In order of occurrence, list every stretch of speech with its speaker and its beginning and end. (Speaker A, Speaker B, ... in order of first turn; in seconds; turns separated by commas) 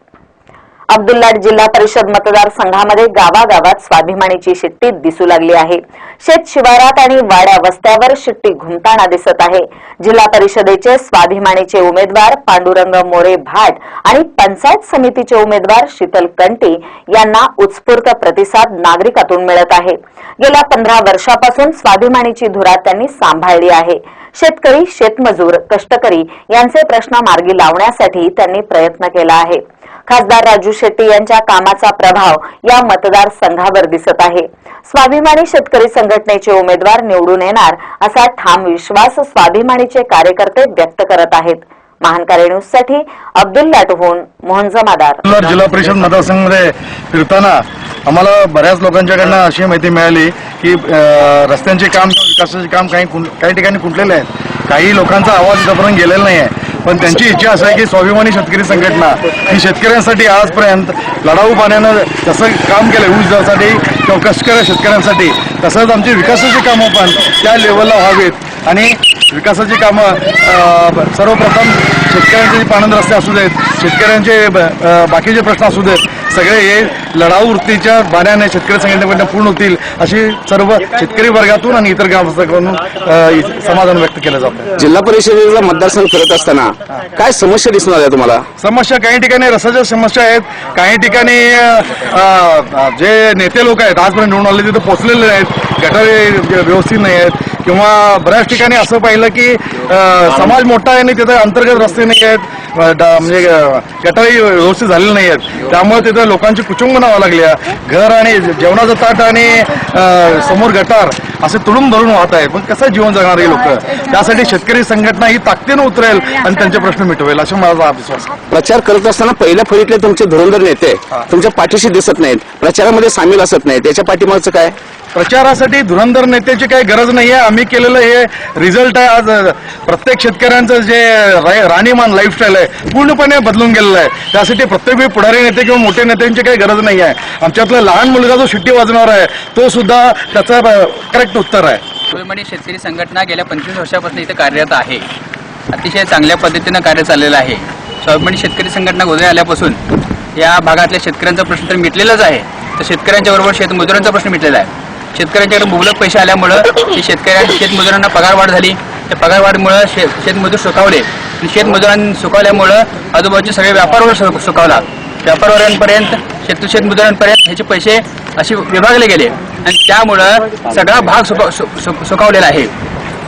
Speaker A: 0.9-45.2, Speaker B: 45.2-84.7, Speaker C: 84.8-88.4, Speaker B: 88.6-118.3, Speaker C: 118.5-124.7, Speaker B: 125.2-141.8, Speaker D: 142.1-145.1, Speaker D: 145.7-149.8, Speaker D: 150.4-172.7